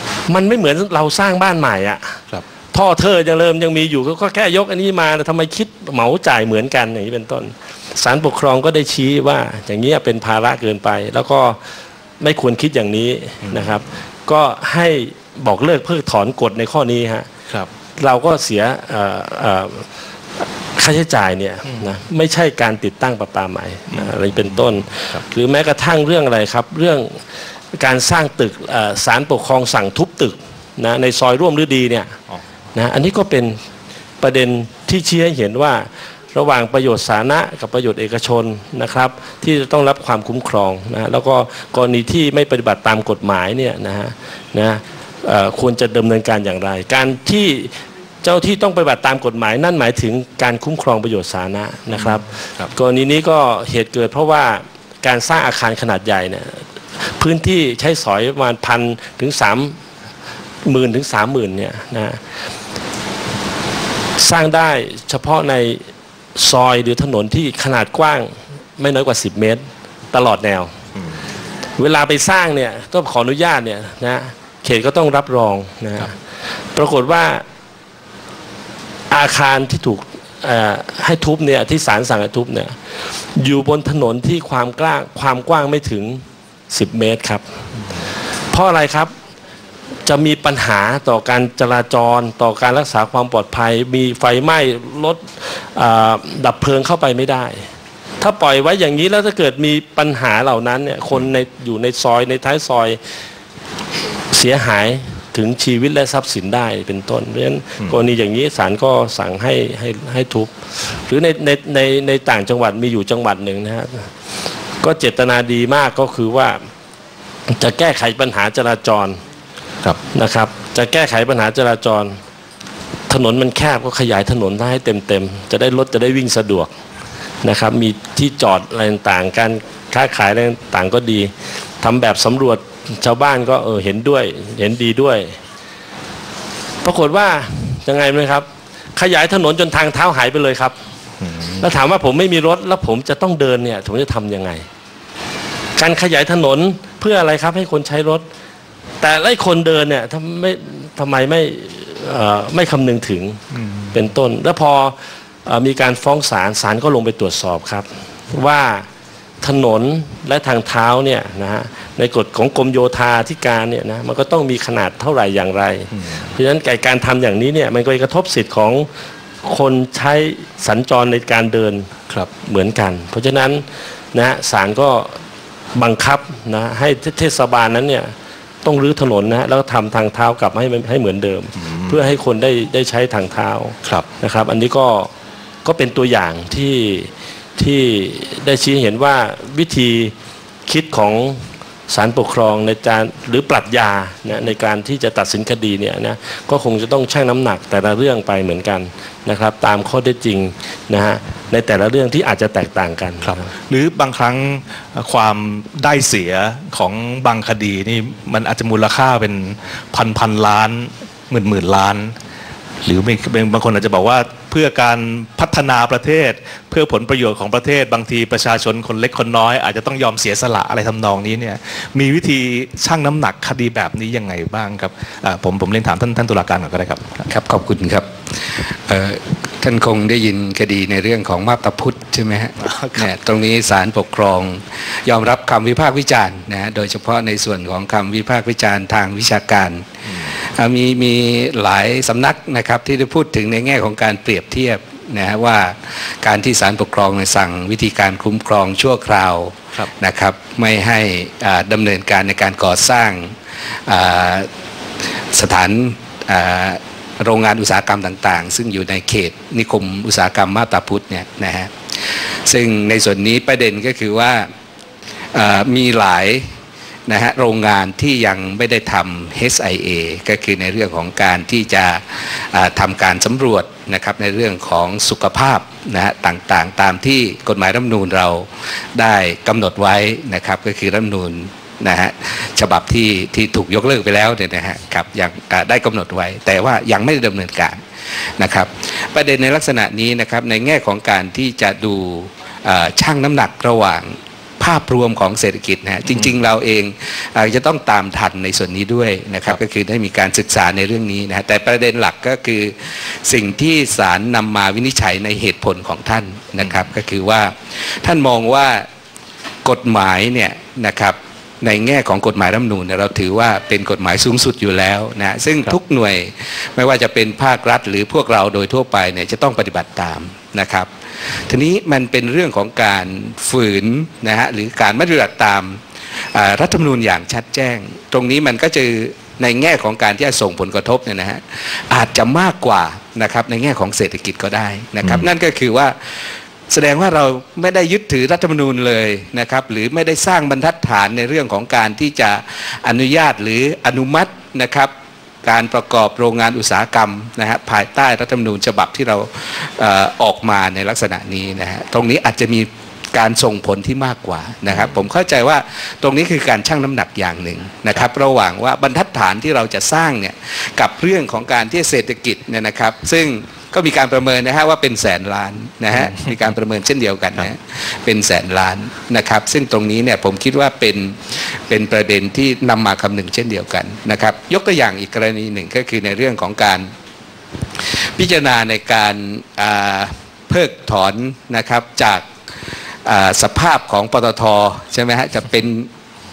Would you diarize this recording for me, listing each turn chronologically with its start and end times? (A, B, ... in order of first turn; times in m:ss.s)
0:00.3-0:02.2 A
0:02.7-0:11.6 A
0:12.2-0:17.3 A
0:13.5-0:13.8 B
0:18.0-0:19.9 A
0:20.4-0:27.2 A
0:23.9-0:25.2 B
0:27.8-0:32.2 A
0:32.8-0:33.6 A
0:34.2-0:59.8 A
0:51.9-0:52.7 B
1:00.7-1:02.2 A
1:04.2-1:05.8 A
1:06.4-1:10.7 A
1:11.8-1:16.1 A
1:16.8-1:17.4 A
1:19.1-1:22.8 A
1:23.4-1:27.4 A
1:28.5-1:29.1 A
1:30.1-1:37.6 A
1:38.2-1:43.0 A
1:44.3-1:54.1 A
1:54.8-1:56.6 A
1:57.5-1:59.2 A
2:00.1-2:02.2 A
2:03.1-2:06.7 A
2:07.4-2:15.4 A
2:16.8-2:18.5 A
2:19.0-2:20.8 A
2:21.2-2:21.6 B
2:21.6-2:24.7 A
2:25.8-2:28.2 A
2:29.0-2:33.4 A
2:33.5-2:34.0 B
2:33.9-2:35.0 A
2:35.5-2:38.9 A
2:39.4-2:48.9 A
2:49.4-2:51.9 A
2:52.4-2:55.2 A
2:55.8-2:58.1 A
2:58.6-3:05.1 A
3:01.6-3:02.0 B
3:05.6-3:10.1 A
3:10.7-3:23.5 A
3:23.2-3:32.1 B
3:32.8-3:47.3 B
3:47.3-4:14.5 C
3:52.6-3:53.1 B
4:15.3-4:21.7 C
4:22.5-4:24.5 C
4:25.3-4:26.4 C
4:27.1-4:47.8 C
4:48.4-5:08.8 C
5:09.6-5:20.9 C
5:21.5-5:25.8 C
5:26.3-5:36.0 C
5:36.7-5:44.9 C
5:45.4-6:16.9 C
6:17.9-6:22.3 C
6:23.0-6:25.9 C